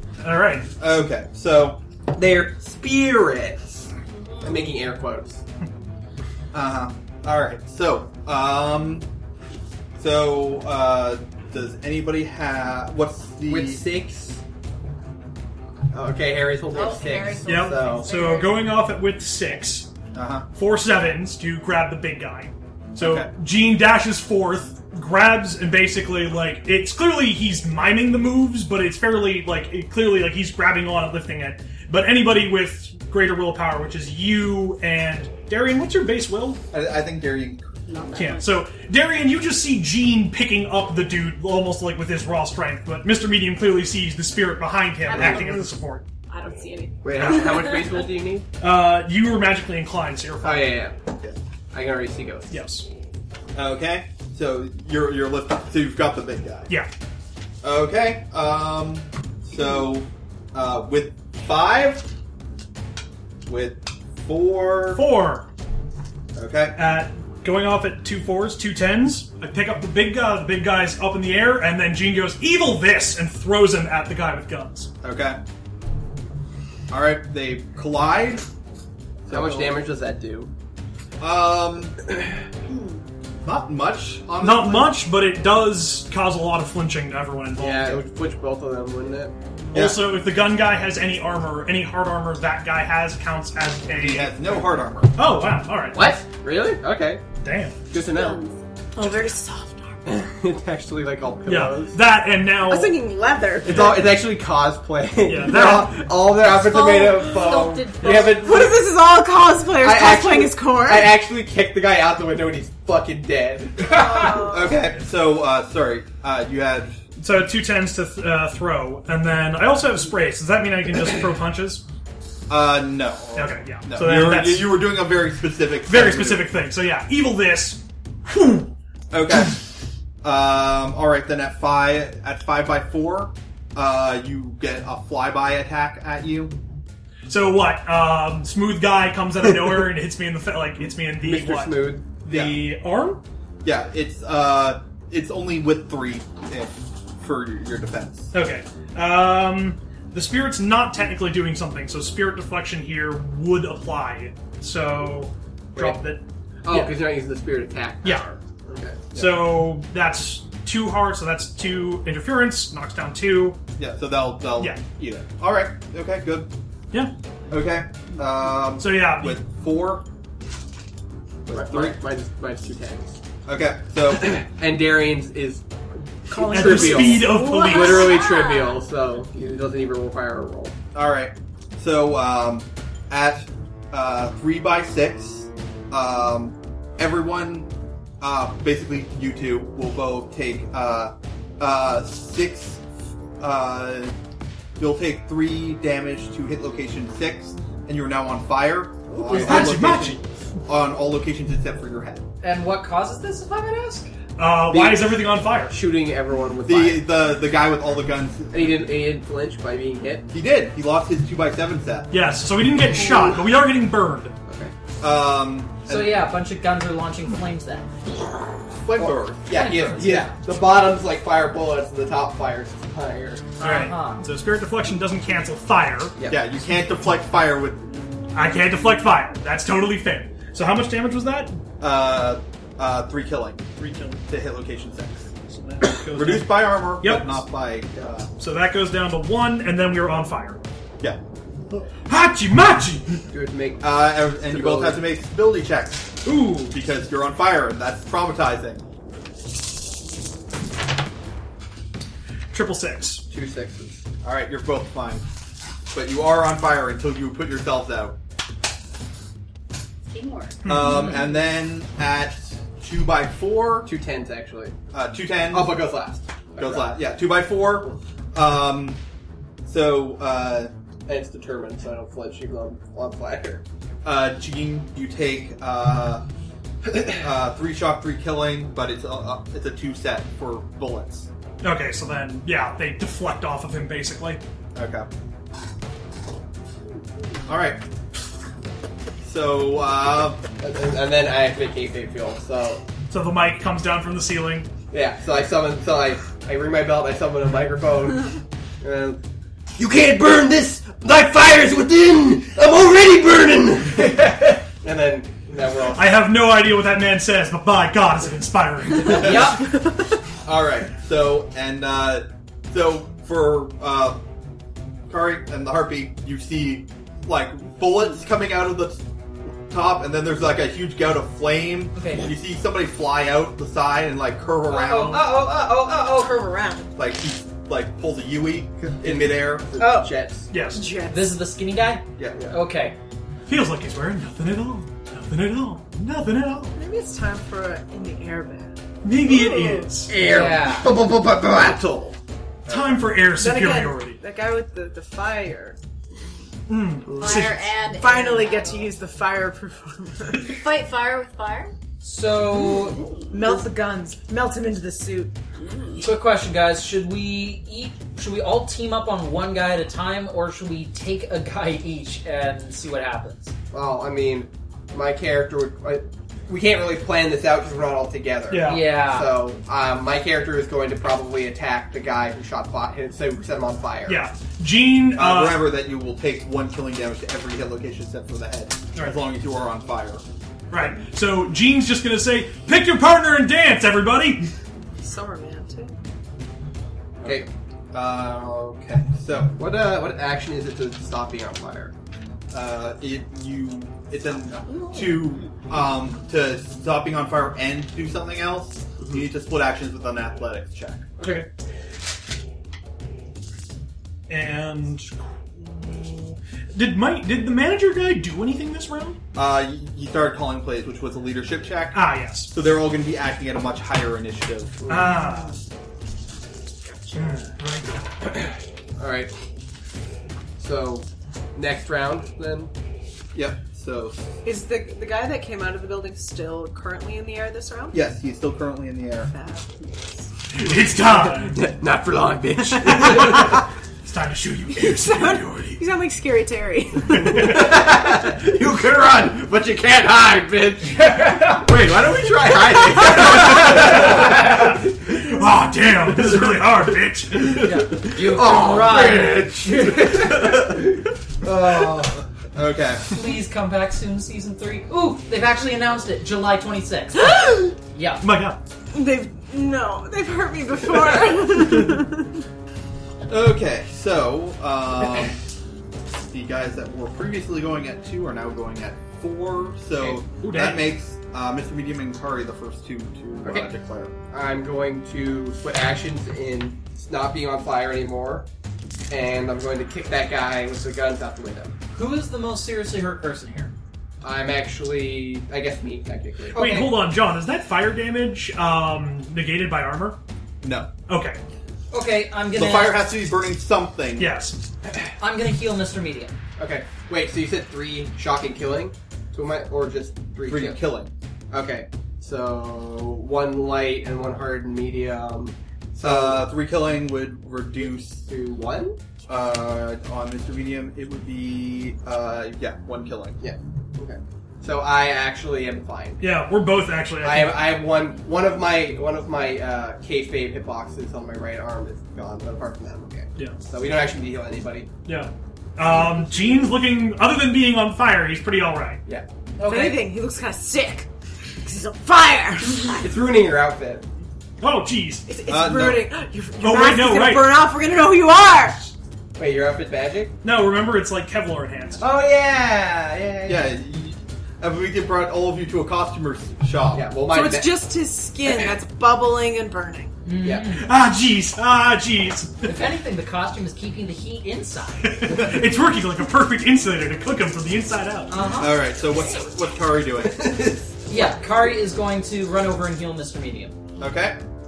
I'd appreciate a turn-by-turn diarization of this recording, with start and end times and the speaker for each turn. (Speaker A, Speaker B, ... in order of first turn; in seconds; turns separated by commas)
Speaker A: 0.2-0.7, Speaker B: 0.8-1.8, Speaker C: 2.1-3.9, Speaker D: 4.1-4.7, Speaker C: 4.4-5.4, Speaker B: 6.5-9.1, Speaker B: 10.0-13.8, Speaker C: 13.5-14.4, Speaker C: 15.9-18.2, Speaker D: 16.7-18.7, Speaker A: 17.4-19.9, Speaker B: 20.1-20.5, Speaker A: 20.5-36.6, Speaker B: 23.0-23.3, Speaker B: 36.7-37.9, Speaker D: 37.9-38.5, Speaker A: 38.1-46.1, Speaker D: 45.1-45.7, Speaker D: 46.3-48.1, Speaker C: 47.0-48.5, Speaker A: 47.2-47.6, Speaker A: 48.6-50.8, Speaker C: 50.4-51.0, Speaker C: 51.7-52.5, Speaker A: 52.5-52.9, Speaker B: 53.5-56.7, Speaker B: 57.6-62.1, Speaker B: 63.5-65.0, Speaker A: 64.9-65.5, Speaker B: 66.3-66.8, Speaker A: 66.8-74.9, Speaker B: 75.0-75.4, Speaker B: 76.9-78.5, Speaker B: 79.3-79.8, Speaker C: 79.3-80.5, Speaker B: 81.2-82.0, Speaker D: 82.7-83.0, Speaker B: 83.4-85.0, Speaker A: 84.4-88.0, Speaker C: 87.6-89.3, Speaker B: 89.7-90.1, Speaker A: 89.7-94.6, Speaker B: 94.0-95.2, Speaker A: 95.1-96.2, Speaker C: 95.9-97.2, Speaker A: 97.4-97.8, Speaker C: 97.9-98.4, Speaker D: 98.0-98.6, Speaker E: 99.0-99.8, Speaker C: 100.1-102.0, Speaker A: 101.5-103.0, Speaker E: 102.7-104.2, Speaker C: 103.6-108.9, Speaker A: 105.2-106.1, Speaker D: 106.4-108.6, Speaker E: 108.1-111.2, Speaker C: 109.8-114.4, Speaker E: 113.8-114.8, Speaker D: 114.0-114.4, Speaker B: 114.1-117.0, Speaker A: 117.2-121.8, Speaker B: 122.5-126.5, Speaker A: 123.3-125.0, Speaker A: 125.9-128.7, Speaker B: 129.1-129.7, Speaker B: 130.2-136.6, Speaker A: 137.3-143.2, Speaker C: 141.2-142.1, Speaker B: 142.3-142.6, Speaker B: 143.6-148.3, Speaker A: 148.3-157.0, Speaker C: 156.7-159.4, Speaker A: 159.1-163.6, Speaker B: 163.8-166.5, Speaker B: 167.5-170.1, Speaker A: 168.8-169.4, Speaker B: 171.5-172.0, Speaker C: 171.5-173.2, Speaker B: 173.5-174.4, Speaker C: 174.2-175.7, Speaker C: 176.3-180.8, Speaker E: 176.3-177.7, Speaker A: 176.5-178.2, Speaker D: 177.4-178.8, Speaker B: 180.9-192.8, Speaker B: 193.4-194.1, Speaker B: 194.8-202.3, Speaker C: 199.2-199.8, Speaker A: 199.3-200.2, Speaker F: 202.4-204.1, Speaker A: 204.4-205.8, Speaker C: 204.7-207.1, Speaker B: 206.7-208.8, Speaker C: 208.5-210.3, Speaker B: 210.3-212.1, Speaker A: 212.1-214.3, Speaker C: 214.5-214.7, Speaker B: 215.0-216.2, Speaker F: 215.9-217.9, Speaker B: 218.8-219.8, Speaker C: 219.0-223.5, Speaker F: 219.5-220.3, Speaker F: 223.6-224.2, Speaker A: 223.6-226.2, Speaker C: 226.2-226.4, Speaker B: 226.3-228.0, Speaker A: 228.3-231.6, Speaker B: 231.8-235.3, Speaker A: 233.8-234.2, Speaker A: 235.5-237.4, Speaker B: 236.1-238.3, Speaker A: 238.4-240.6, Speaker A: 241.7-243.2, Speaker C: 243.3-245.0, Speaker B: 243.8-248.8, Speaker A: 246.2-246.8, Speaker A: 252.5-253.2, Speaker C: 253.3-254.0, Speaker B: 254.2-255.3, Speaker B: 255.9-258.2, Speaker D: 260.1-260.6, Speaker A: 260.7-261.1, Speaker B: 260.7-263.9, Speaker C: 263.9-264.8, Speaker B: 264.9-265.8, Speaker C: 265.5-267.0, Speaker B: 266.6-269.0, Speaker B: 269.6-270.7, Speaker C: 271.1-273.6, Speaker B: 274.1-276.2, Speaker B: 277.1-281.3, Speaker A: 281.6-284.4, Speaker B: 284.8-285.1, Speaker B: 287.5-287.8, Speaker B: 289.2-290.4, Speaker C: 290.6-292.8, Speaker A: 293.1-294.7, Speaker C: 294.9-299.2, Speaker C: 299.8-306.1, Speaker A: 305.9-309.6, Speaker F: 309.0-309.8, Speaker B: 309.1-309.6, Speaker B: 310.4-314.2, Speaker B: 315.1-325.3, Speaker F: 322.0-322.3, Speaker F: 324.7-326.6, Speaker E: 326.4-326.9, Speaker B: 327.0-329.6, Speaker C: 328.8-330.5, Speaker E: 329.8-331.4, Speaker A: 330.5-330.9, Speaker F: 331.1-333.0, Speaker B: 332.2-332.5, Speaker C: 332.3-332.6, Speaker A: 333.5-336.8, Speaker E: 336.8-339.9, Speaker A: 339.0-340.1, Speaker C: 340.1-341.9, Speaker F: 340.2-340.9, Speaker B: 341.6-343.1, Speaker A: 342.7-344.2, Speaker E: 343.4-345.8, Speaker A: 346.7-347.6, Speaker C: 347.1-347.5, Speaker D: 347.2-348.9, Speaker E: 347.9-350.6, Speaker D: 350.4-351.7, Speaker F: 352.0-353.1, Speaker E: 353.3-355.3, Speaker F: 356.0-363.5, Speaker C: 363.7-374.2, Speaker A: 368.5-368.9, Speaker F: 368.6-369.3, Speaker A: 374.1-375.8, Speaker B: 375.2-380.2, Speaker A: 380.7-384.5, Speaker E: 385.0-385.9, Speaker C: 387.2-387.5, Speaker B: 387.2-389.6, Speaker C: 389.6-391.9, Speaker B: 392.5-401.1, Speaker C: 401.2-401.5, Speaker A: 404.3-409.2, Speaker B: 409.3-414.9, Speaker A: 411.9-412.5, Speaker A: 414.9-415.6, Speaker C: 414.9-415.1, Speaker E: 416.9-417.4, Speaker A: 417.1-418.3, Speaker C: 419.0-419.3, Speaker C: 420.6-422.7, Speaker B: 423.4-424.2, Speaker E: 424.4-428.0, Speaker B: 427.9-429.3, Speaker E: 429.3-430.3, Speaker A: 430.5-431.6, Speaker C: 431.5-433.6, Speaker A: 432.9-435.8, Speaker E: 434.7-437.7, Speaker C: 437.3-445.1, Speaker A: 443.2-447.7, Speaker C: 447.4-450.9, Speaker F: 447.6-450.2, Speaker B: 451.4-453.1, Speaker F: 453.1-458.2, Speaker E: 457.2-457.8, Speaker A: 458.2-458.6, Speaker E: 458.9-462.4, Speaker B: 463.3-465.4, Speaker B: 466.3-474.1, Speaker A: 470.2-470.9, Speaker C: 474.3-478.5, Speaker C: 479.1-481.8, Speaker F: 481.9-483.7, Speaker C: 484.2-486.9, Speaker A: 486.5-490.2, Speaker F: 486.5-486.9, Speaker B: 490.6-490.9, Speaker A: 491.1-491.4, Speaker F: 491.9-493.0, Speaker B: 492.5-494.3, Speaker A: 494.2-494.6, Speaker F: 495.2-496.4, Speaker C: 496.6-500.8, Speaker B: 500.5-501.1, Speaker C: 501.5-506.5, Speaker B: 506.0-508.3, Speaker C: 508.2-509.0, Speaker B: 509.3-513.4, Speaker C: 513.4-516.3, Speaker A: 516.2-517.8, Speaker C: 517.2-524.9, Speaker A: 525.0-529.0, Speaker F: 529.6-530.1, Speaker E: 529.6-531.1, Speaker E: 531.6-533.1, Speaker C: 532.9-534.1, Speaker A: 534.6-535.3, Speaker E: 535.3-538.9, Speaker B: 535.5-536.1, Speaker A: 536.6-537.7, Speaker C: 539.4-540.3, Speaker A: 540.4-542.0, Speaker C: 542.0-543.7, Speaker B: 543.5-547.1, Speaker C: 546.9-547.8, Speaker E: 547.3-550.1, Speaker F: 550.2-550.9, Speaker C: 550.4-550.7, Speaker A: 550.6-552.7, Speaker F: 552.6-555.3, Speaker A: 555.0-558.4, Speaker F: 558.3-558.9, Speaker B: 558.6-560.7, Speaker C: 560.2-561.3, Speaker F: 561.1-563.8, Speaker B: 564.0-564.4